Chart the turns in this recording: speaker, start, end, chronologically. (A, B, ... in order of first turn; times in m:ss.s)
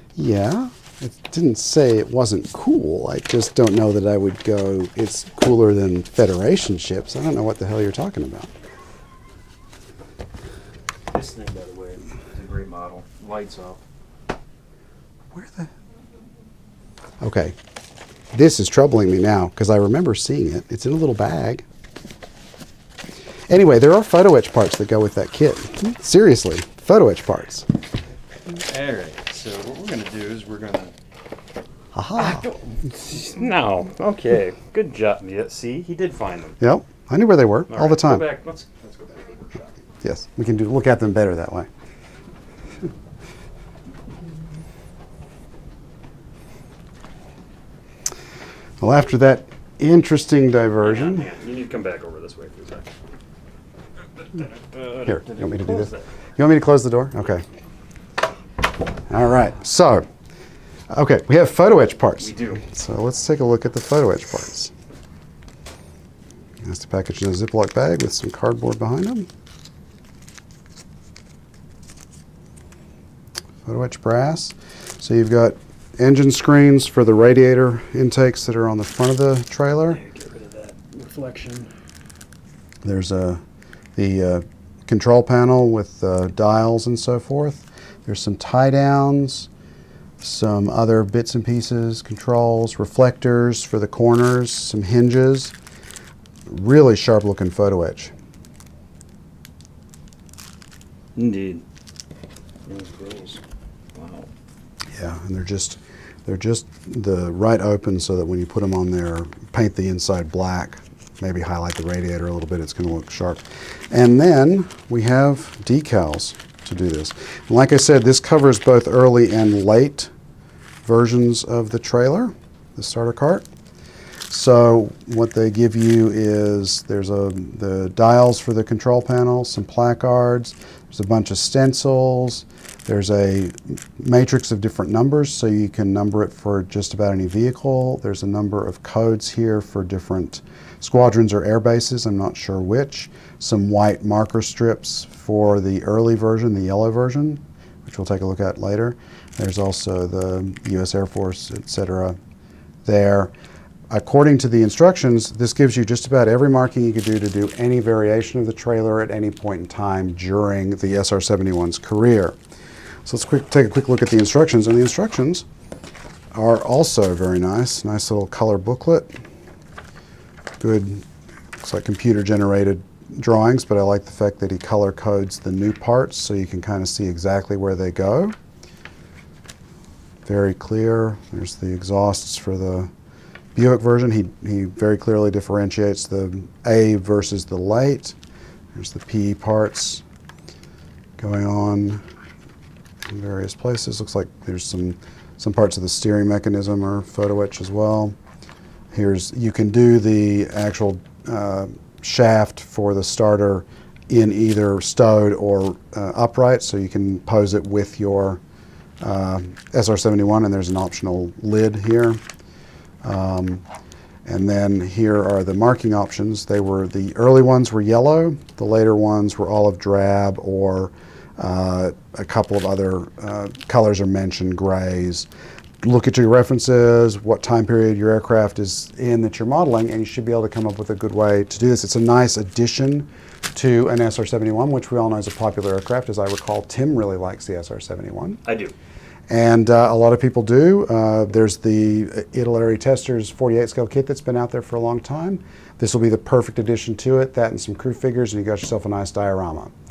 0:00.2-0:08.5 A
0:11.1-0:13.8 B
0:15.3-0:15.7 A
0:17.2-0:17.6 A
0:18.3-0:21.6 A
0:23.5-0:27.7 A
0:28.7-0:30.9 B
0:31.9-0:32.4 A
0:32.2-0:36.6 B
0:36.6-0:38.3 A
0:37.7-0:39.7 B
0:40.0-0:41.7 A
0:48.8-0:51.3 A
0:50.8-0:52.9 B
0:54.3-0:56.1 B
0:55.1-0:57.4 A
0:59.1-1:00.1 A
1:00.9-1:04.7 A
1:02.2-1:02.6 B
1:06.6-1:09.3 A
1:13.6-1:20.0 A
1:19.9-1:21.7 B
1:22.8-1:23.4 A
1:24.0-1:29.5 A
1:30.2-1:35.5 A
1:36.5-1:38.1 A
1:41.2-1:41.6 B
1:42.7-1:43.4 B
1:43.9-1:44.3 B
1:44.9-2:00.1 A
2:00.8-2:03.5 A
2:04.3-2:32.2 A
2:32.8-2:33.3 A
2:33.9-2:42.4 A
2:43.0-2:45.4 A
2:46.3-2:49.1 A
2:50.6-2:51.0 A
2:51.6-2:58.4 A
3:00.3-3:02.9 A
3:03.6-3:08.2 A
3:08.7-3:10.0 A
3:11.2-3:12.0 A
3:13.1-3:18.2 A
3:18.9-3:28.4 A
3:29.0-3:32.2 A
3:33.0-3:33.6 A
3:34.3-3:45.3 A
3:45.8-3:58.4 A
3:58.4-3:58.7 B
3:59.3-4:09.7 A